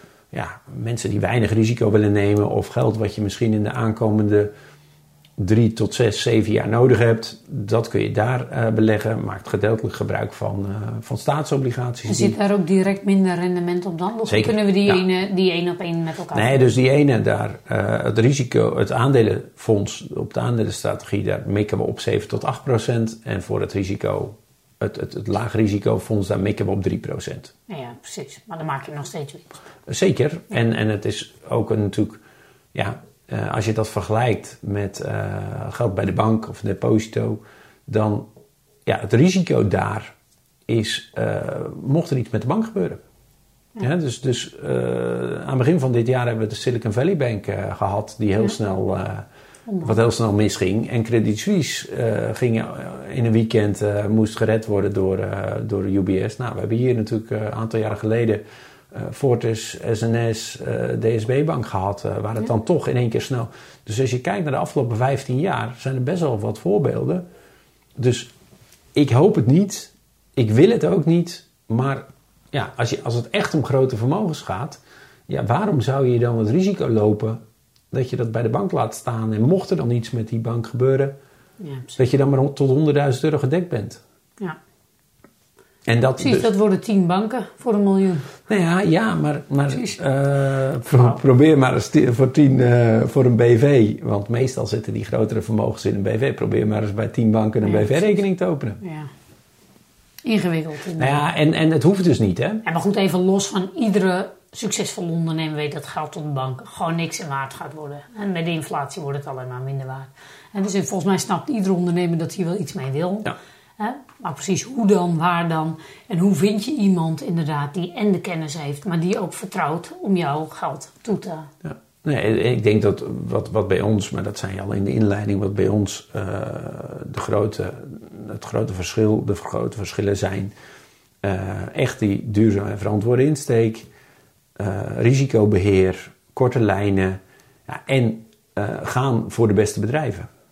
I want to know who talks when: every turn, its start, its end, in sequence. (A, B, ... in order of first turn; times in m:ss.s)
0:00.3-0:04.5 A
0:05.4-0:12.4 A
0:12.0-0:16.8 B
0:14.2-0:15.0 A
0:16.3-0:27.5 A
0:27.7-0:29.6 B
0:29.9-0:32.2 A
0:32.7-0:38.3 A
0:38.8-0:40.1 A
0:40.7-0:43.0 A
0:43.8-0:49.2 A
0:49.8-1:07.2 A
1:08.0-1:08.3 A
1:08.9-1:17.4 A
1:17.9-1:21.1 A
1:21.6-1:22.0 B
1:22.0-1:24.0 A
1:25.8-1:26.5 A
1:26.2-1:28.4 B
1:28.5-1:38.8 A
1:37.6-1:38.2 B
1:38.8-1:39.1 B
1:40.2-1:41.2 B
1:41.0-1:42.6 A
1:42.6-2:01.5 B
2:01.6-2:10.5 A
2:11.2-2:13.9 A
2:14.6-2:20.3 A